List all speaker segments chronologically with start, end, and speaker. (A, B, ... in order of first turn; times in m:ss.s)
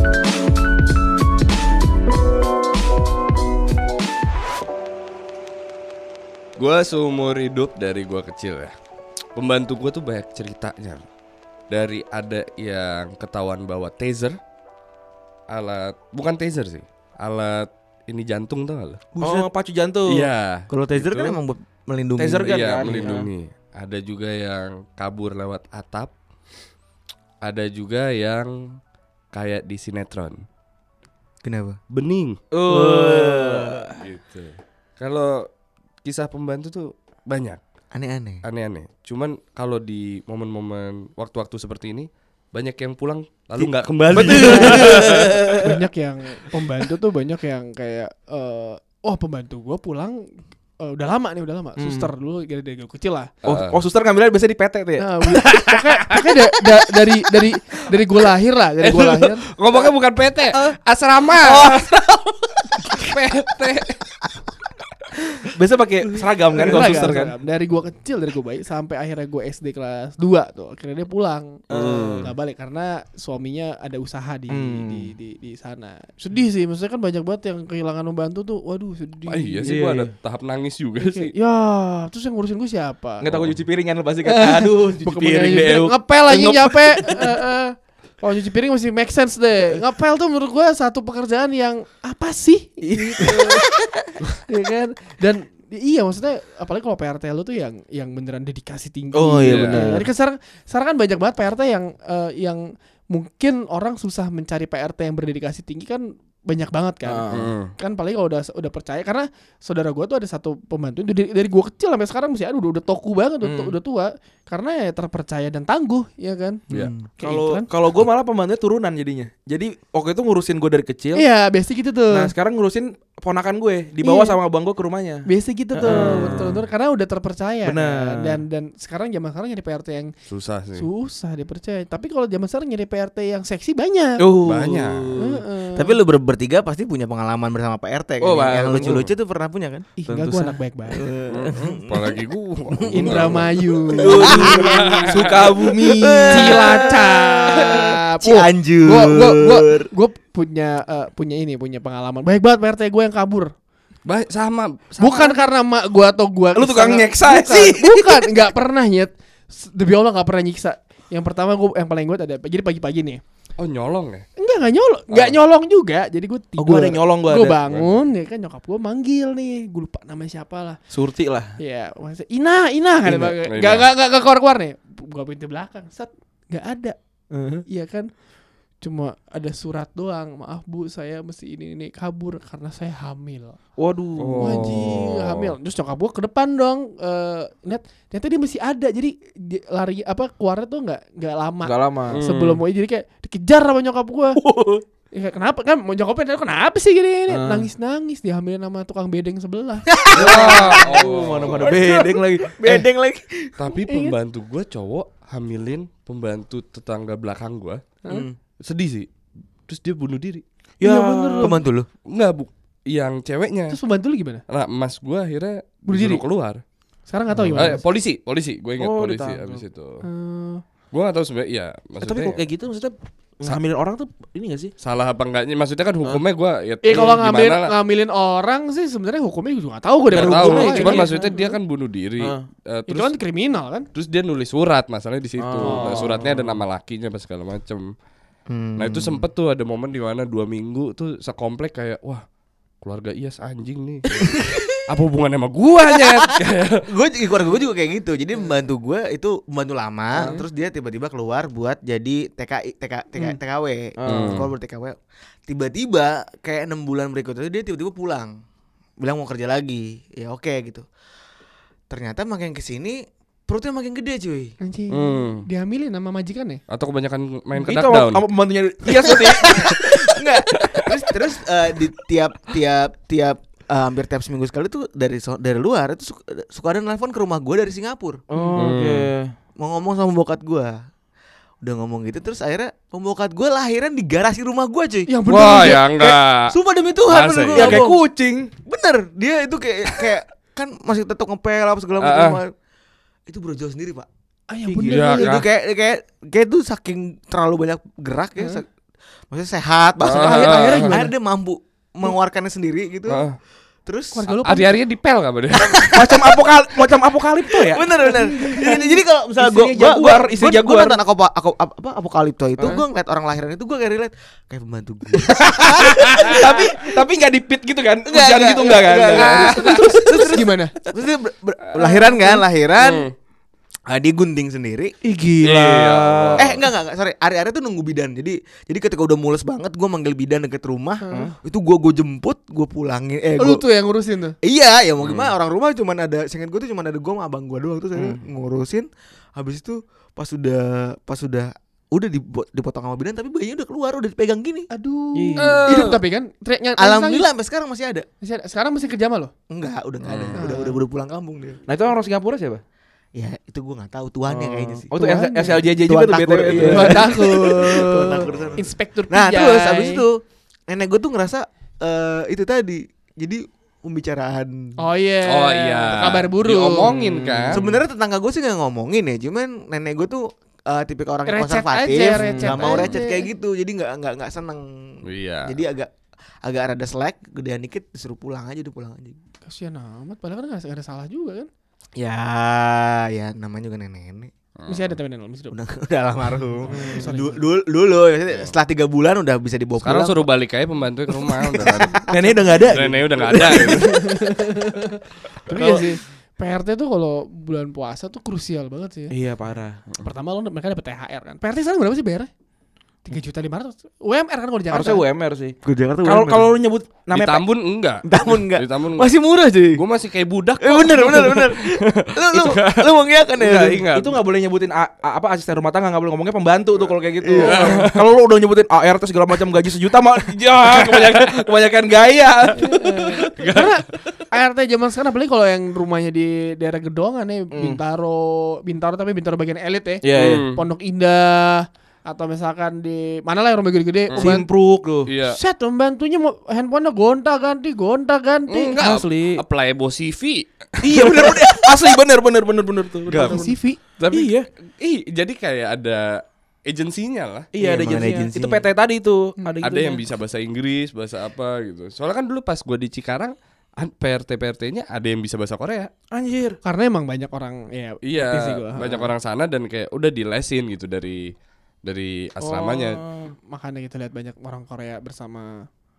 0:06.6-0:08.7 A
0:09.4-0:11.0 A
0:11.7-0:14.4 A
0:15.5-0:19.0 A
0:19.2-0:19.5 B
0:19.2-0:20.3 C
0:20.1-0:20.7 A
0:20.7-0:23.1 B
0:21.1-0:21.4 C
0:22.2-0:23.3 C
0:22.5-0:26.1 A
0:27.4-0:28.8 A
0:29.3-0:30.4 A
0:31.4-0:31.8 B
0:31.9-0:32.4 A
0:32.5-0:33.9 C
0:32.7-0:33.9 B
0:33.9-0:35.5 A
0:36.0-0:37.6 A
0:37.9-0:38.4 B
0:38.4-0:45.4 A
0:44.1-0:45.8 C
0:44.2-0:45.3 B
0:44.4-0:45.0 D
0:45.6-0:53.3 D
0:51.8-0:52.1 C
0:53.4-0:53.8 A
0:53.5-0:55.0 C
0:55.0-0:59.4 D
0:55.3-0:56.2 A
0:58.8-1:01.9 A
1:01.4-1:03.0 C
1:02.9-1:04.0 A
1:05.4-1:07.3 C
1:06.6-1:19.7 D
1:11.7-1:12.3 C
1:11.7-1:12.3 A
1:14.5-1:15.1 C
1:19.3-1:21.3 A
1:19.6-1:20.1 C
1:21.0-1:23.3 D
1:23.2-1:27.4 C
1:23.3-1:23.6 A
1:24.2-1:33.5 D
1:32.8-1:33.6 C
1:34.4-1:56.6 D
1:39.1-1:40.1 C
1:39.5-1:40.0 A
1:47.0-1:47.5 C
1:47.3-1:47.7 A
1:53.4-1:53.8 C
1:56.7-1:57.0 B
1:56.7-2:01.2 C
1:57.2-1:57.7 D
2:01.2-2:02.3 D
2:02.1-2:05.2 C
2:04.0-2:04.4 D
2:05.3-2:10.1 D
2:05.8-2:06.6 C
2:07.6-2:08.4 C
2:10.3-2:10.9 A
2:10.8-2:14.2 D
2:14.2-2:15.4 C
2:14.4-2:15.3 A
2:15.2-2:16.0 D
2:15.7-2:19.9 B
2:18.2-2:19.1 C
2:20.0-2:21.0 D
2:20.1-2:20.6 C
2:21.0-2:22.2 B
2:21.3-2:23.5 A
2:22.8-2:25.0 B
2:22.9-2:25.0 D
2:23.9-2:27.0 C
2:24.7-2:25.4 A
2:25.5-2:29.9 B
2:26.3-2:33.5 D
2:34.1-2:35.4 A
2:35.0-2:43.2 D
2:36.6-2:38.4 C
2:43.6-2:44.2 A
2:44.4-2:50.8 D
2:46.6-2:47.6 C
2:47.6-2:48.0 A
2:50.9-2:51.6 C
2:51.6-2:57.0 D
2:53.0-2:53.3 C
2:53.4-2:53.9 A
2:57.3-2:57.6 C
2:57.7-2:58.1 D
2:58.8-3:03.6 D
3:03.8-3:04.9 C
3:04.2-3:05.5 A
3:04.4-3:14.4 D
3:11.6-3:12.2 C
3:12.1-3:12.6 A
3:14.4-3:14.8 C
3:15.1-3:19.9 D
3:17.3-3:17.7 C
3:19.9-3:21.0 B
3:20.1-3:21.8 A
3:20.1-3:22.8 C
3:21.5-3:23.6 B
3:23.6-3:27.8 A
3:23.7-3:24.2 D
3:28.1-3:28.4 B
3:28.6-3:29.1 A
3:29.7-3:30.4 A
3:30.8-3:31.6 C
3:30.8-3:31.6 D
3:31.4-3:31.9 B
3:32.1-3:33.8 A
3:33.7-3:34.4 D
3:34.5-3:36.6 A
3:35.9-3:36.2 D
3:37.1-3:37.8 D
3:37.3-3:37.8 B
3:37.6-3:40.0 A
3:38.8-3:39.6 C
3:40.0-3:40.6 D
3:40.9-3:42.4 A
3:42.0-3:44.7 C
3:44.8-3:47.7 A
3:46.8-3:51.5 D
3:46.9-3:47.2 C
3:50.1-3:53.1 A
3:50.1-3:51.4 C
3:52.2-3:52.4 C
3:52.9-3:53.9 D
3:53.9-3:57.9 A
3:55.4-3:56.4 C
3:55.6-3:56.1 D
3:58.5-3:59.3 B
3:58.8-4:02.2 A
4:02.8-4:04.3 A
4:04.2-4:04.8 B
4:04.9-4:06.8 A
4:06.9-4:15.0 B
4:14.0-4:14.4 C
4:14.1-4:14.5 A
4:15.5-4:18.3 B
4:19.0-4:20.8 B
4:21.9-4:24.5 B
4:24.6-4:26.6 D
4:24.9-4:25.4 A
4:26.7-4:28.3 A
4:27.6-4:30.0 C
4:29.0-4:38.2 B
4:38.3-4:39.3 C
4:38.6-4:39.1 A
4:39.6-4:40.8 B
4:41.6-4:45.1 B
4:45.1-4:45.9 D
4:45.3-4:46.5 A
4:46.0-4:48.0 B
4:47.1-4:47.8 A
4:47.5-4:48.5 C
4:48.6-4:52.5 B
4:52.0-4:52.4 A
4:53.3-4:54.1 B
4:54.5-4:55.4 D
4:54.7-4:55.0 C
4:54.9-4:55.5 A
4:55.1-4:58.7 B
4:59.3-5:03.2 B
5:00.0-5:01.0 A
5:00.1-5:01.1 D
5:03.1-5:03.4 A
5:03.9-5:04.3 B
5:04.1-5:04.8 D
5:04.4-5:05.8 A
5:05.5-5:06.5 B
5:06.0-5:07.8 C
5:07.7-5:16.7 B
5:08.4-5:11.0 C
5:15.2-5:20.2 C
5:18.1-5:23.1 B
5:19.2-5:20.7 D
5:21.8-5:22.4 D
5:22.8-5:23.1 A
5:23.9-5:24.9 B
5:25.0-5:26.6 C
5:25.4-5:26.5 A
5:26.4-5:33.6 B
5:31.0-5:31.3 D
5:33.4-5:34.4 D
5:34.4-5:44.7 B
5:35.0-5:35.3 A
5:38.0-5:38.2 C
5:44.7-5:47.3 D
5:45.2-5:45.6 C
5:45.4-5:45.9 A
5:45.7-5:46.0 B
5:46.8-5:48.1 B
5:48.2-5:49.3 D
5:49.5-5:51.6 B
5:50.0-5:50.4 A
5:50.4-5:50.8 D
5:51.7-5:52.6 C
5:53.2-5:54.9 B
5:54.3-5:58.4 C
5:55.0-5:55.6 D
5:55.8-6:04.8 B
5:56.6-6:00.0 D
6:04.8-6:07.0 D
6:05.3-6:07.6 A
6:06.8-6:07.8 C
6:07.5-6:14.7 B
6:11.3-6:13.3 D
6:12.2-6:12.9 C
6:15.1-6:15.5 A
6:15.4-6:15.9 B
6:16.4-6:19.2 B
6:19.4-6:21.5 D
6:22.0-6:24.3 B
6:24.6-6:24.9 A
6:24.7-6:25.6 D
6:25.5-6:30.3 B
6:26.7-6:27.4 D
6:26.7-6:27.0 C
6:29.8-6:34.0 A
6:31.3-6:32.0 B
6:32.1-6:33.9 C
6:33.6-6:39.1 D
6:35.5-6:35.8 C
6:39.1-6:39.8 C
6:40.0-6:42.3 D
6:43.0-6:45.0 D
6:44.7-6:47.4 C
6:45.6-6:46.6 B
6:47.1-6:49.2 A
6:48.0-6:49.8 B
6:49.7-6:54.2 A
6:50.6-6:53.9 B
6:53.9-7:03.2 C
6:57.2-6:57.6 B
6:57.4-6:58.0 A
7:02.6-7:14.5 D
7:03.2-7:03.8 A
7:07.5-7:07.8 C
7:10.0-7:10.4 C
7:10.2-7:10.6 A
7:14.1-7:14.4 A
7:14.2-7:15.1 C
7:15.0-7:15.4 A
7:15.3-7:18.8 D
7:18.5-7:21.5 A
7:18.8-7:19.4 C
7:20.8-7:23.5 C
7:23.1-7:27.5 A
7:23.2-7:23.8 D
7:24.1-7:24.5 C
7:27.5-7:30.0 C
7:27.6-7:28.7 B
7:29.6-7:35.9 A
7:36.1-7:36.6 C
7:36.6-7:39.1 D
7:38.0-7:41.3 A
7:41.8-7:43.0 A
7:42.4-7:43.3 C
7:43.5-7:45.7 D